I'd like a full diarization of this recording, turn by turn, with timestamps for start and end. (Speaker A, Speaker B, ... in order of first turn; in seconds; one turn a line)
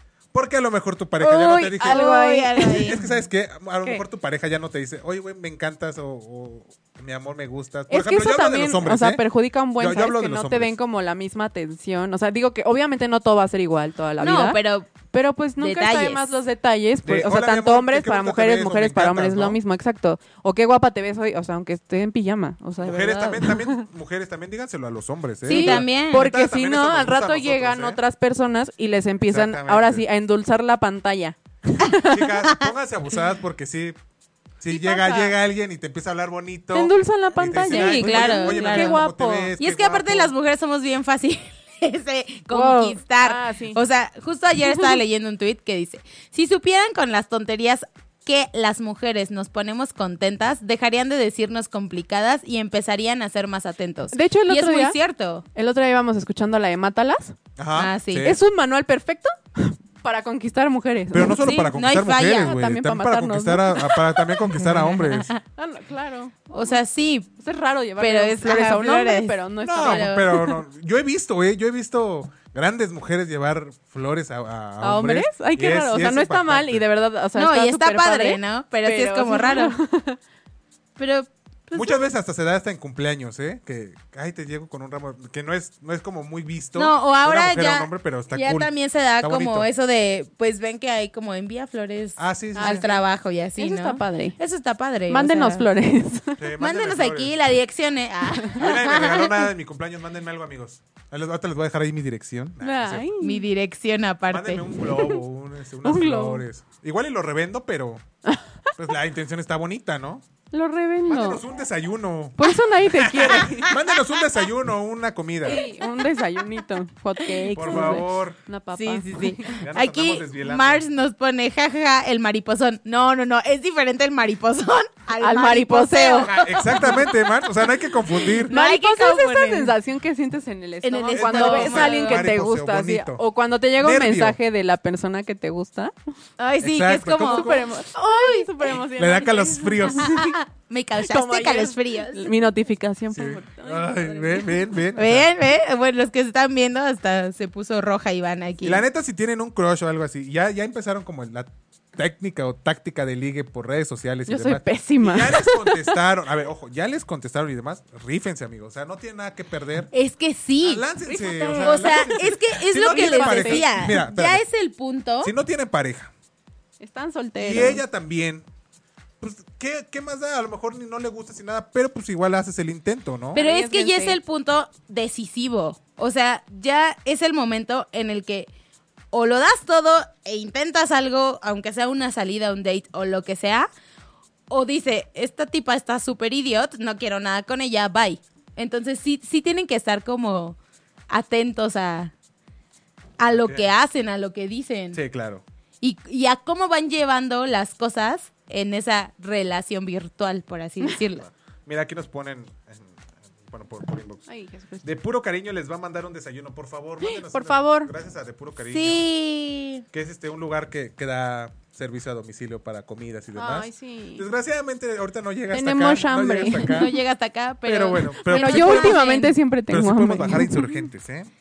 Speaker A: 0.3-2.1
Speaker B: 1.2-3.0
Speaker C: 1.4-3.0
Speaker A: 2.8-9.2
Speaker C: 7.9-23.8
Speaker A: 9.8-10.7
Speaker B: 14.2-14.9
Speaker B: 15.6-16.3
Speaker A: 17.0-19.6
Speaker A: 22.8-28.0
Speaker C: 25.4-32.3
Speaker B: 25.5-26.3
Speaker A: 29.3-30.0
Speaker A: 32.0-34.0
Speaker A: 34.6-40.3
Speaker C: 34.8-35.3
Speaker C: 36.7-39.5
Speaker B: 37.6-39.0
Speaker B: 39.6-55.4
Speaker C: 42.5-43.8
Speaker C: 54.1-55.0
Speaker C: 55.5-57.4
Speaker A: 57.6-58.4
Speaker B: 57.8-58.3
Speaker C: 58.2-61.5
Speaker A: 61.1-65.3
Speaker B: 61.4-62.5
Speaker C: 62.3-64.1
Speaker B: 64.6-65.4
Speaker C: 65.5-66.7
Speaker B: 66.5-67.3
Speaker C: 67.4-70.6
Speaker B: 68.0-70.3
Speaker A: 69.6-76.8
Speaker C: 74.8-80.2
Speaker B: 77.3-79.7
Speaker B: 81.0-81.9
Speaker A: 81.7-89.7
Speaker B: 86.8-95.7
Speaker A: 92.2-92.8
Speaker C: 92.5-93.0
Speaker C: 93.6-94.4
Speaker C: 95.1-96.4
Speaker A: 96.4-97.3
Speaker B: 96.6-99.5
Speaker A: 98.5-103.1
Speaker C: 102.6-103.5
Speaker B: 103.2-104.8
Speaker A: 104.3-108.0
Speaker C: 105.8-106.4
Speaker A: 108.8-110.3
Speaker C: 110.5-111.4
Speaker A: 111.1-115.7
Speaker C: 112.4-113.8
Speaker C: 115.4-119.6
Speaker B: 117.2-118.0
Speaker A: 117.5-118.4
Speaker B: 118.8-127.2
Speaker A: 119.6-120.8
Speaker C: 125.2-126.3
Speaker A: 126.2-128.5
Speaker B: 128.3-129.7
Speaker C: 128.5-135.9
Speaker B: 130.8-132.3
Speaker A: 131.1-133.2
Speaker A: 133.8-134.4
Speaker B: 136.4-138.5
Speaker A: 136.6-137.6
Speaker C: 137.3-140.3
Speaker A: 138.9-140.2
Speaker B: 139.9-142.4
Speaker C: 141.0-144.5
Speaker A: 143.1-145.2
Speaker B: 144.9-148.8
Speaker A: 148.6-159.9
Speaker C: 154.3-155.9
Speaker B: 159.9-160.9
Speaker A: 160.6-164.4
Speaker C: 161.1-163.9
Speaker B: 161.4-165.3
Speaker A: 165.2-166.1
Speaker C: 166.8-167.8
Speaker A: 167.4-168.4
Speaker A: 169.2-173.4
Speaker C: 173.3-174.2
Speaker B: 173.3-178.5
Speaker B: 179.1-183.7
Speaker B: 184.5-190.6
Speaker B: 191.1-192.1
Speaker B: 193.2-195.0
Speaker A: 193.3-193.7
Speaker A: 194.9-195.4
Speaker B: 195.8-201.2
Speaker A: 201.7-204.2
Speaker C: 204.3-204.9
Speaker A: 204.8-209.0
Speaker C: 207.0-207.9
Speaker B: 208.7-209.8
Speaker A: 209.9-216.9
Speaker C: 213.3-214.2
Speaker C: 215.5-216.9
Speaker B: 216.6-219.4
Speaker A: 217.6-219.0
Speaker C: 218.2-220.7
Speaker A: 219.7-221.3